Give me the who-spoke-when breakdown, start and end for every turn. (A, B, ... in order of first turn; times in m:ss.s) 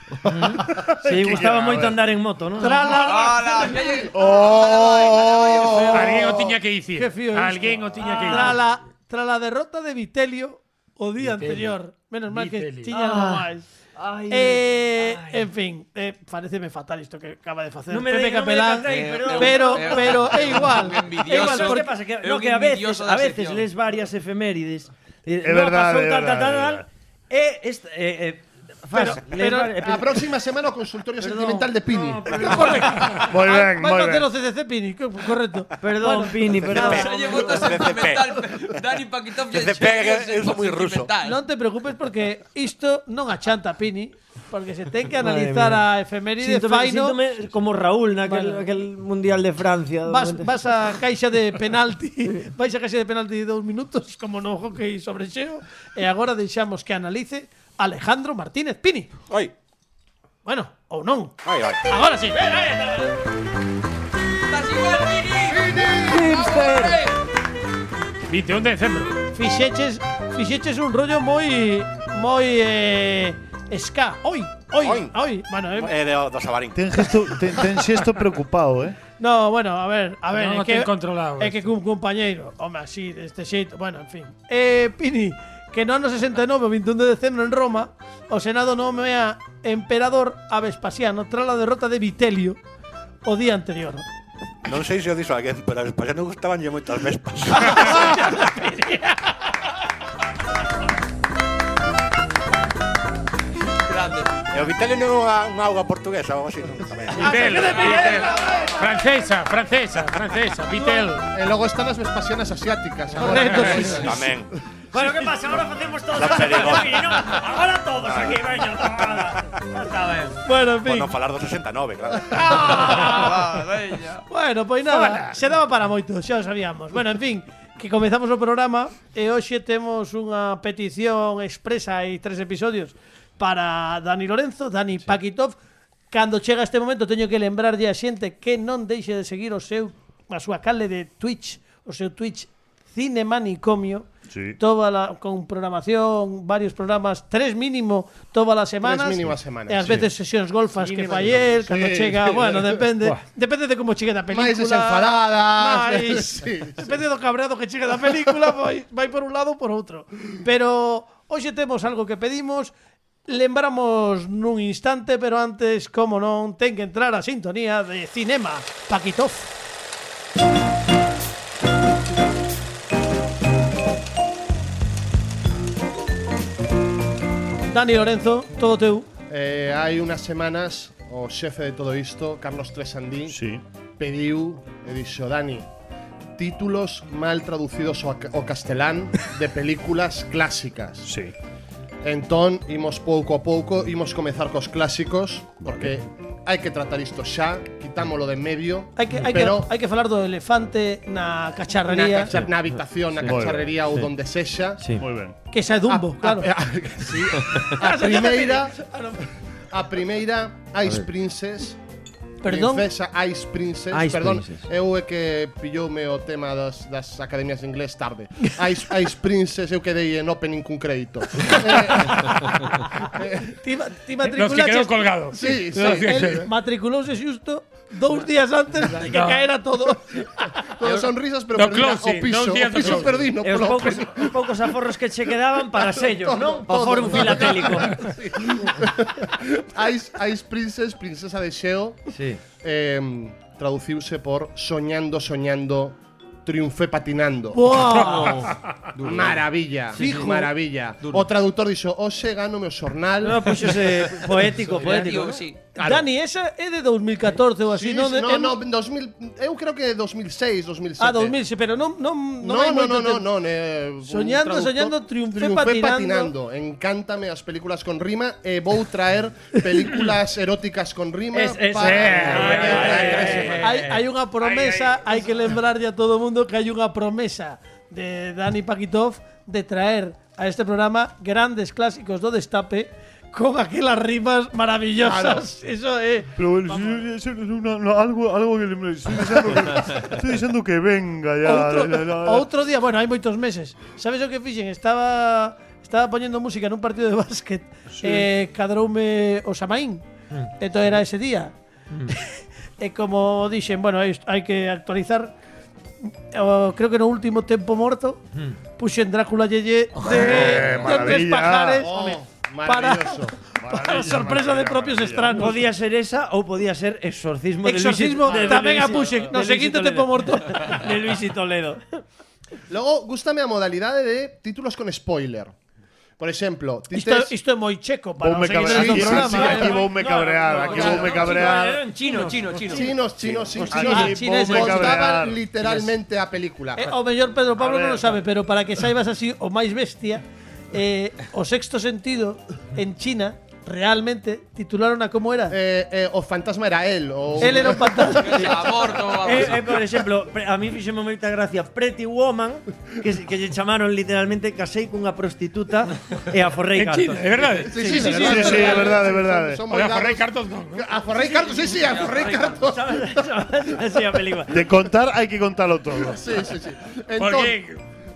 0:00.3-0:03.0 A
0:00.6-0:02.0 B
0:02.6-0:04.0 C
0:02.9-0:06.1 D
0:04.1-0:06.3 E
0:05.7-0:13.7 C
0:05.9-0:08.6 F
0:11.2-0:11.7 F
0:12.3-0:12.9 F
0:12.9-0:15.5 A
0:14.3-0:21.9 C
0:17.9-0:30.2 A
0:18.8-0:23.7 D
0:25.4-0:26.8 B
0:28.9-0:29.7 C
0:29.8-0:32.6 E
0:31.2-0:33.1 A
0:32.4-0:37.9 C
0:33.2-0:34.2 B
0:35.8-0:37.2 A
0:36.7-0:41.4 D
0:36.8-0:38.4 G
0:39.5-0:41.1 G
0:41.2-0:47.2 C
0:45.2-0:45.8 A
0:46.4-0:50.5 A
0:48.2-0:48.7 C
0:50.0-0:59.1 C
1:00.4-1:03.1 C
1:01.4-1:01.8 G
1:04.5-1:07.2 D
1:05.8-1:06.2 E
1:05.9-1:07.0 A
1:08.3-1:09.2 F
1:09.3-1:15.9 C
1:14.8-1:15.1 G
1:15.7-1:17.4 G
1:16.7-1:19.0 B
1:19.2-1:32.6 C
1:20.3-1:21.7 F
1:33.2-1:34.0 C
1:34.6-1:38.2 G
1:37.7-1:39.3 C
1:43.8-1:44.4 D
1:44.5-1:47.5 G
1:47.2-1:48.8 C
1:47.2-1:51.2 F
1:47.8-1:48.2 D
1:51.3-1:54.3 E
1:53.2-1:54.1 C
1:53.2-1:53.9 F
1:54.0-1:54.5 G
1:54.9-2:00.3 A
1:56.1-1:57.2 G
1:58.0-1:58.4 G
2:00.4-2:01.1 C
2:00.8-2:02.9 G
2:02.3-2:03.5 C
2:02.6-2:04.2 D
2:04.3-2:15.5 C
2:04.9-2:05.3 F
2:16.1-2:42.7 C
2:24.3-2:24.6 B
2:28.8-2:30.0 E
2:30.8-2:31.6 A
2:31.6-2:32.8 E
2:34.3-2:36.9 E
2:43.3-2:49.5 C
2:57.7-2:59.1 C
2:59.3-3:03.4 E
3:03.3-3:03.6 B
3:04.0-3:05.7 E
3:06.4-3:11.1 E
3:11.0-3:11.3 B
3:12.0-3:19.7 E
3:15.7-3:15.9 B
3:19.0-3:22.4 C
3:21.9-3:24.8 E
3:23.2-3:23.7 B
3:24.8-3:25.0 A
3:25.0-3:25.3 B
3:25.5-3:26.5 C
3:25.9-3:28.8 E
3:27.6-3:29.3 C
3:29.7-3:31.8 E
3:32.4-3:32.9 C
3:32.4-3:43.5 E
3:33.9-3:34.7 A
3:43.4-3:50.5 C
3:44.3-3:46.5 F
3:45.3-3:46.4 E
3:49.0-3:49.4 F
3:50.7-3:54.8 E
3:51.5-3:53.3 F
3:53.4-3:58.1 A
3:55.7-4:07.8 E
4:02.1-4:02.4 A
4:07.5-4:08.5 C
4:09.0-4:09.4 D
4:09.0-4:13.9 E
4:09.9-4:10.5 A
4:13.2-4:15.5 A
4:14.6-4:15.1 F
4:14.7-4:15.6 D
4:15.7-4:16.1 E
4:15.8-4:18.6 C
4:17.7-4:21.4 E
4:21.0-4:23.3 C
4:22.4-4:33.6 E
4:24.0-4:26.3 C
4:31.3-4:34.0 A
4:31.7-4:33.7 F
4:33.6-4:47.0 C
4:34.4-4:35.2 F
4:45.0-4:45.4 E
4:46.3-4:52.5 B
4:51.4-5:01.5 C
4:57.9-4:58.3 B
5:02.1-5:05.3 C
5:06.0-5:08.2 C
5:08.8-5:15.6 C
5:10.0-5:11.9 B
5:11.8-5:13.4 E
5:13.6-5:15.6 B
5:15.3-5:21.8 A
5:17.6-5:21.2 C
5:18.3-5:19.1 E
5:22.7-5:25.5 E
5:26.2-5:27.3 E
5:26.9-5:29.8 C
5:28.2-5:31.8 B
5:28.6-5:29.9 E
5:29.8-5:32.9 A
5:30.4-5:32.9 D
5:30.6-5:31.2 E
5:32.7-5:36.9 E
5:33.2-5:35.8 B
5:33.7-5:35.0 C
5:36.8-5:45.6 C
5:37.6-5:38.2 B
5:45.5-5:48.2 E
5:47.4-5:48.5 C
5:48.2-5:49.8 D
5:48.4-5:58.7 A
5:56.7-5:58.6 F
5:57.7-6:03.2 E
5:57.8-5:58.8 C
5:58.1-5:59.6 B
5:59.7-6:00.9 F
6:01.8-6:02.4 D
6:02.2-6:04.6 A
6:04.5-6:06.2 B
6:06.0-6:07.6 E
6:07.2-6:07.8 F